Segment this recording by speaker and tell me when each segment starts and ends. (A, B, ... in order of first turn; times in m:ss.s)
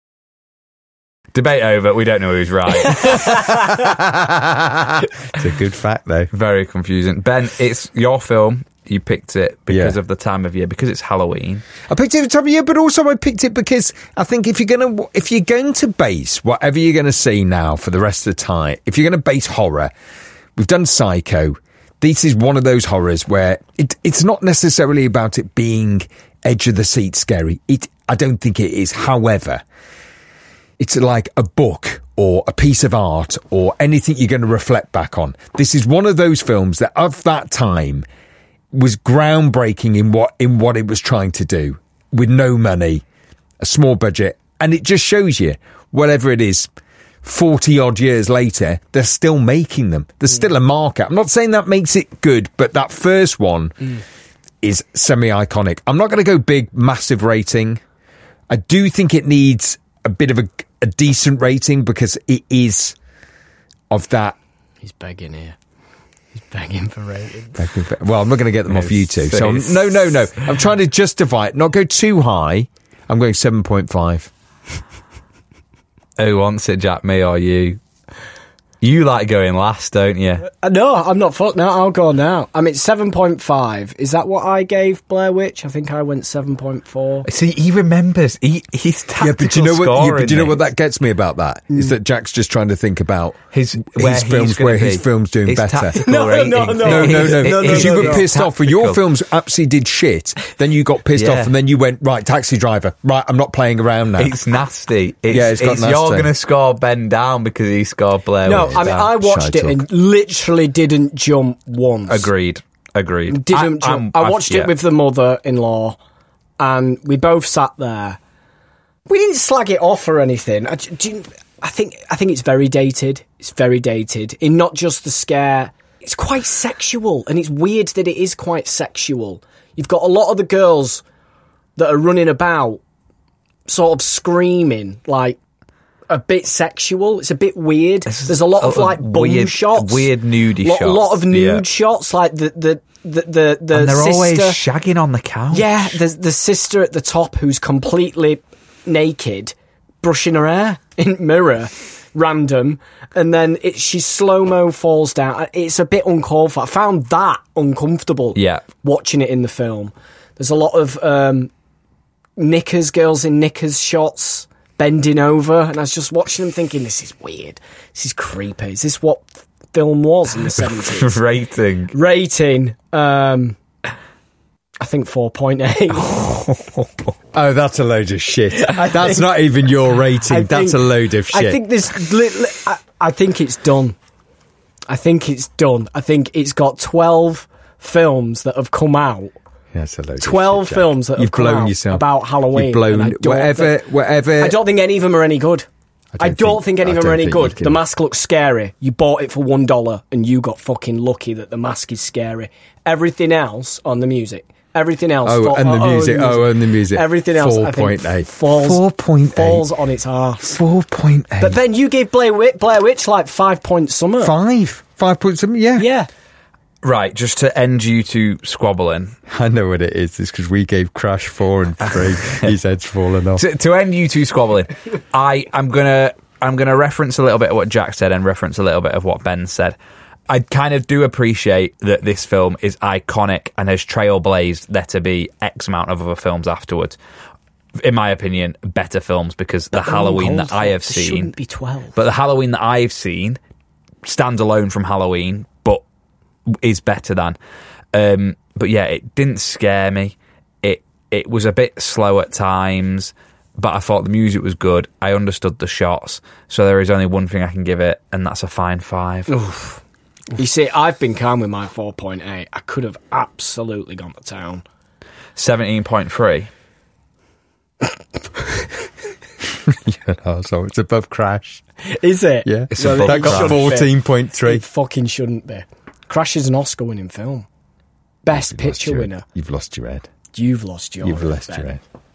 0:01.3-0:03.6 A
0:03.5-0:06.3 B
0:06.3-0:11.6 A
0:09.7-0:10.0 B
0:11.9-0:19.9 B
0:20.6-0:29.6 B
0:30.8-0:38.0 B
0:38.7-0:43.0 B
0:43.6-0:46.7 B
0:47.2-0:54.0 B
0:54.6-0:57.8 B
0:58.5-1:02.9 B
1:03.9-1:04.4 B
1:04.8-1:05.6 C
1:06.3-1:07.6 C
1:07.6-1:14.3 B
1:08.7-1:09.9 A
1:16.2-1:17.8 A
1:18.8-1:20.5 A
1:20.5-1:27.2 C
1:27.2-1:30.6 A
1:29.2-1:36.0 B
1:33.5-1:39.0 A
1:36.0-1:38.3 C
1:36.8-1:44.3 B
1:41.2-1:41.5 A
1:44.2-1:49.0 A
1:45.3-1:46.3 B
1:48.4-1:52.3 C
1:48.4-1:49.8 B
1:52.1-1:54.7 A
1:53.3-1:56.0 C
1:56.6-1:58.2 C
1:59.1-2:11.0 C
2:11.8-2:12.8 C
2:13.7-2:15.4 C
2:16.1-2:24.6 C
2:18.1-2:21.6 A
2:23.7-2:26.0 A
2:25.5-2:41.5 C
2:38.4-2:38.6 A
2:42.4-2:51.2 C
2:50.5-2:51.9 A
2:51.9-2:53.6 C
2:54.8-2:56.1 C
2:56.0-2:57.1 A
2:57.3-3:01.6 B
2:58.6-2:59.3 C
3:00.2-3:04.0 C
3:04.9-3:09.3 C
3:09.7-3:14.6 B
3:10.2-3:13.8 C
3:14.4-3:15.7 C
3:16.2-3:17.8 B
3:16.2-3:30.6 C
3:25.2-3:29.7 B
3:30.5-3:31.6 B
3:31.4-3:34.3 C
3:34.2-3:35.9 B
3:35.8-3:36.1 C
3:36.8-3:39.2 A
3:39.3-3:43.4 B
3:42.1-3:42.5 A
3:43.4-3:49.8 A
3:50.3-3:57.0 A
3:57.8-4:01.3 A
3:59.7-4:02.0 C
4:01.9-4:03.4 A
4:04.0-4:05.8 A
4:06.5-4:07.4 A
4:07.9-4:19.3 A
4:19.3-4:19.8 C
4:20.3-4:24.6 C
4:25.4-4:26.5 A
4:29.6-4:31.6 B
4:31.8-4:37.4 C
4:32.4-4:34.6 B
4:32.7-4:33.7 A
4:38.2-4:39.2 C
4:38.3-4:40.1 B
4:40.3-4:41.8 C
4:41.0-4:41.8 B